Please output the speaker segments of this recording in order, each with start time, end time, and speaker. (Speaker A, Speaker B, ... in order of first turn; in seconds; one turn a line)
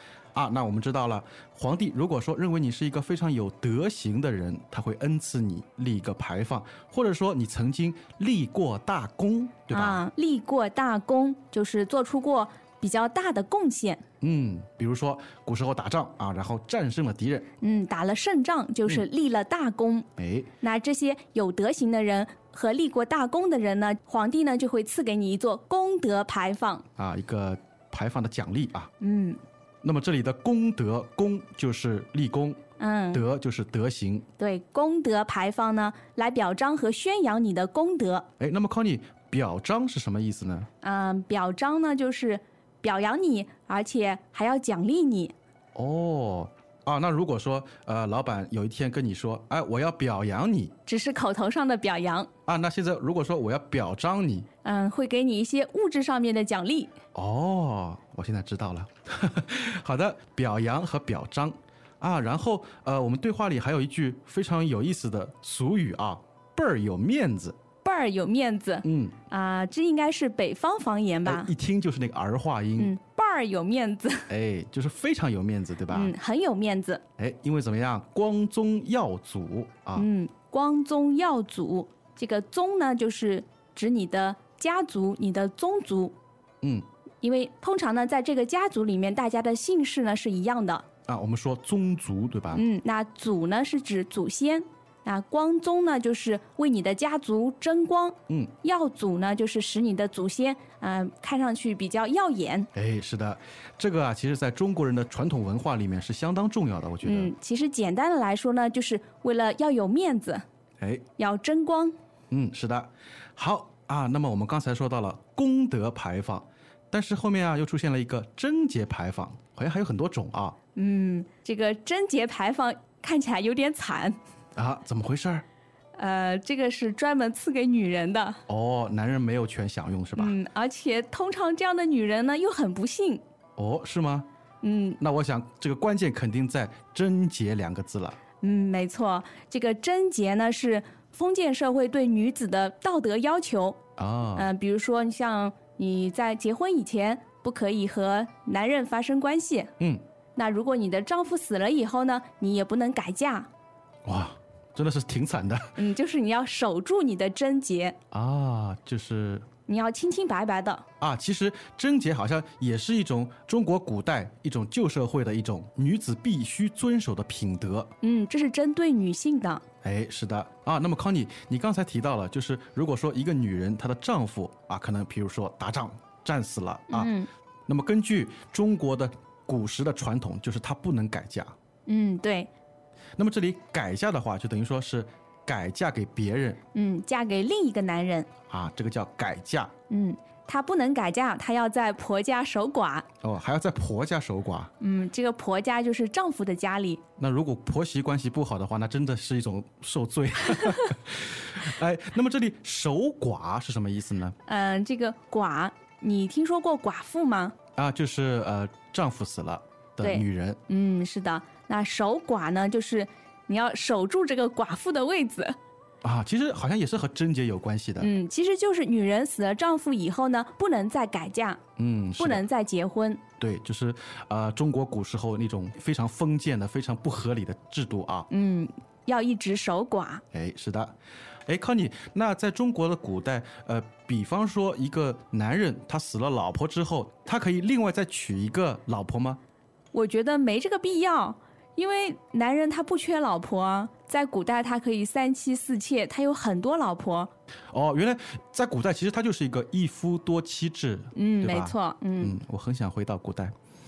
Speaker A: 0.3-10.0
Speaker B: 9.7-14.0
Speaker A: 14.2-17.5
Speaker B: 17.6-20.1
Speaker A: 20.2-20.5
Speaker B: 20.6-26.8
Speaker A: 26.9-28.9
Speaker B: 29.0-29.4
Speaker A: 29.8-32.6
Speaker B: 32.8-33.2
Speaker A: 33.1-34.2
Speaker B: 34.4-38.3
Speaker A: 38.4-40.7
Speaker B: 40.8-45.3
Speaker A: 45.7-50.7
Speaker B: 50.9-52.3
Speaker A: 52.5-54.5
Speaker B: 54.6-56.9
Speaker A: 57.1-67.5
Speaker B: 67.8-71.5
Speaker A: 68.8-69.2
Speaker A: 71.2-73.0
Speaker B: 72.8-74.3
Speaker A: 74.3-76.1
Speaker B: 75.9-77.0
Speaker A: 77.2-80.1
Speaker B: 80.0-86.1
Speaker B: 87.2-90.8
Speaker A: 91.1-92.6
Speaker B: 92.5-102.7
Speaker A: 98.3-98.5
Speaker A: 102.7-107.3
Speaker B: 107.0-110.4
Speaker A: 110.8-111.0
Speaker B: 111.2-111.9
Speaker A: 112.3-120.5
Speaker B: 120.8-124.2
Speaker A: 124.5-125.4
Speaker B: 125.9-128.4
Speaker A: 128.5-130.3
Speaker B: 130.1-133.2
Speaker A: 133.6-134.3
Speaker B: 134.6-135.0
Speaker A: 135.0-138.2
Speaker B: 138.4-143.8
Speaker A: 144.0-144.5
Speaker B: 144.3-149.7
Speaker B: 150.3-153.5
Speaker A: 154.0-155.7
Speaker B: 155.8-158.0
Speaker A: 158.1-159.4
Speaker B: 159.7-160.8
Speaker A: 161.0-167.9
Speaker B: 168.0-169.6
Speaker A: 169.8-177.1
Speaker B: 176.9-177.3
Speaker A: 177.7-181.5
Speaker B: 181.9-182.5
Speaker A: 183.2-186.6
Speaker B: 186.7-188.3
Speaker A: 188.5-189.7
Speaker B: 189.9-193.1
Speaker A: 193.2-194.7
Speaker B: 194.8-197.0
Speaker A: 197.2-204.3
Speaker B: 204.4-207.5
Speaker A: 207.8-210.6
Speaker B: 210.0-215.6
Speaker A: 216.0-218.1
Speaker B: 218.0-221.6
Speaker A: 221.8-222.4
Speaker B: 222.2-223.2
Speaker A: 223.4-228.3
Speaker B: 228.3-230.2
Speaker A: 230.3-230.9
Speaker A: 231.5-239.4
Speaker B: 239.9-247.3
Speaker A: 247.7-253.5
Speaker B: 251.1-252.3